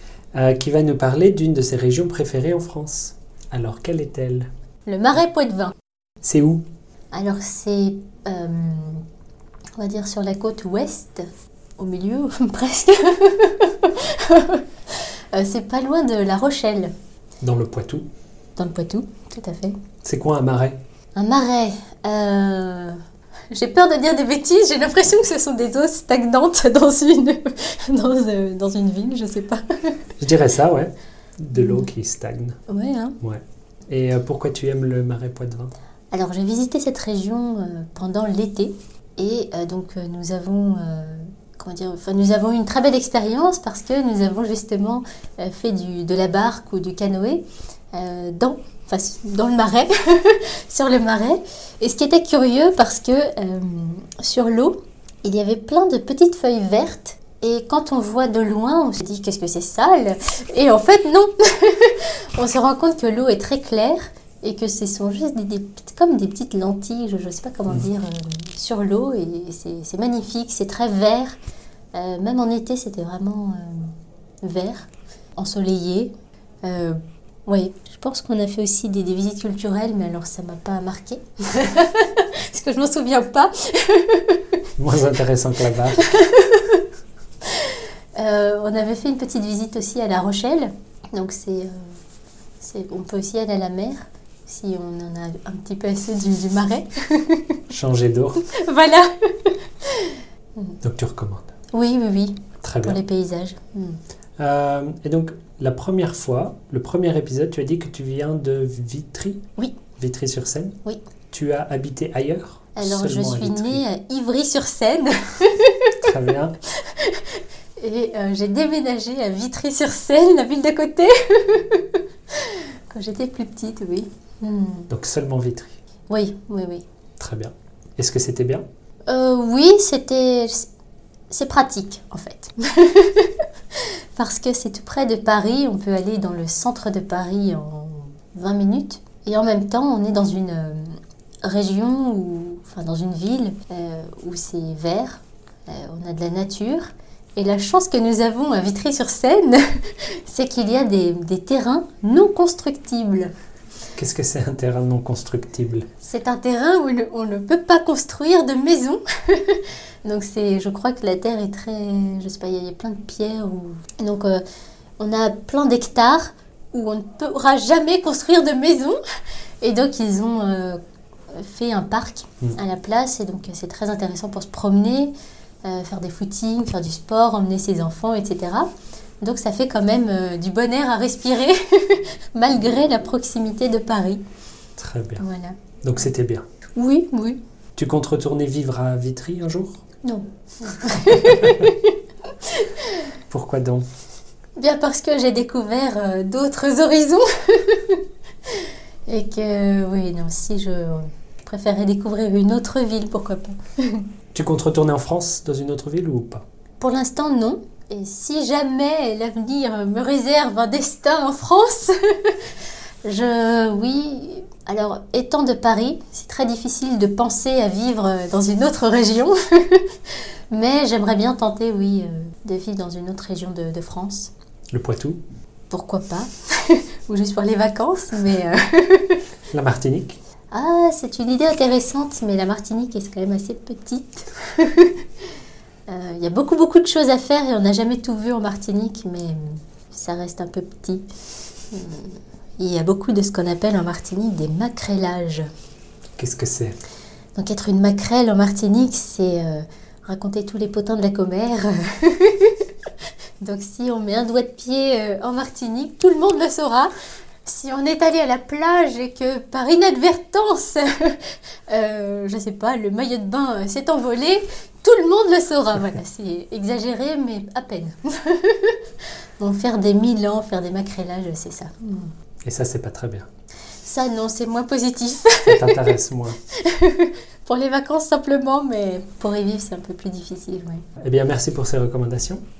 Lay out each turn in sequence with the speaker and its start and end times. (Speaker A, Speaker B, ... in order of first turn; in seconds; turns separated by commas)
Speaker A: 0.3-4.5, Speaker B: 4.9-5.7, Speaker A: 6.2-6.7, Speaker B: 7.1-9.0, Speaker B: 9.8-11.2, Speaker B: 11.8-14.6, Speaker B: 15.3-16.9, Speaker A: 17.4-18.1, Speaker B: 18.6-19.8, Speaker A: 20.0-20.8, Speaker B: 21.1-23.0, Speaker B: 23.5-29.9, Speaker A: 30.2-32.6, Speaker B: 31.5-31.9, Speaker B: 32.7-33.2, Speaker A: 33.2-35.7, Speaker B: 36.1-71.4, Speaker B: 71.9-84.6, Speaker A: 84.8-86.0, Speaker B: 85.9-86.8, Speaker B: 87.5-91.9, Speaker B: 92.6-97.6, Speaker A: 97.7-98.5, Speaker B: 98.4-100.8, Speaker A: 100.8-101.5, Speaker B: 101.7-104.0, Speaker A: 102.6-103.0, Speaker A: 104.4-109.4, Speaker A: 110.0-110.8, Speaker A: 111.3-113.8, Speaker B: 112.8-116.1, Speaker A: 116.0-116.5, Speaker B: 116.8-124.9, Speaker A: 124.9-125.7, Speaker B: 126.1-126.8, Speaker A: 127.2-128.6, Speaker B: 129.1-130.7, Speaker B: 131.3-153.3, Speaker A: 153.9-155.9, Speaker B: 156.0-164.4, Speaker B: 165.0-169.0, Speaker B: 169.6-170.8, Speaker B: 171.3-175.1, Speaker B: 175.6-178.7, Speaker B: 179.2-184.2, Speaker A: 184.8-185.2, Speaker B: 185.2-185.6, Speaker A: 185.8-186.4, Speaker B: 186.8-187.4, Speaker A: 187.8-189.8, Speaker B: 190.0-193.0, Speaker A: 193.3-193.8, Speaker B: 194.6-204.0, Speaker A: 204.3-206.4, Speaker B: 206.8-212.4, Speaker B: 213.0-219.9, Speaker B: 220.5-224.3, Speaker A: 224.7-225.2, Speaker B: 225.7-229.2, Speaker A: 229.5-230.2, Speaker B: 230.5-235.0, Speaker B: 235.9-241.1, Speaker B: 241.7-245.5, Speaker A: 246.2-246.8, Speaker B: 247.3-252.7, Speaker B: 253.4-256.9, Speaker B: 257.4-268.8, Speaker B: 269.4-272.1, Speaker A: 272.4-273.3, Speaker B: 273.8-275.9, Speaker A: 275.4-276.4, Speaker B: 276.6-280.8, Speaker A: 281.0-282.4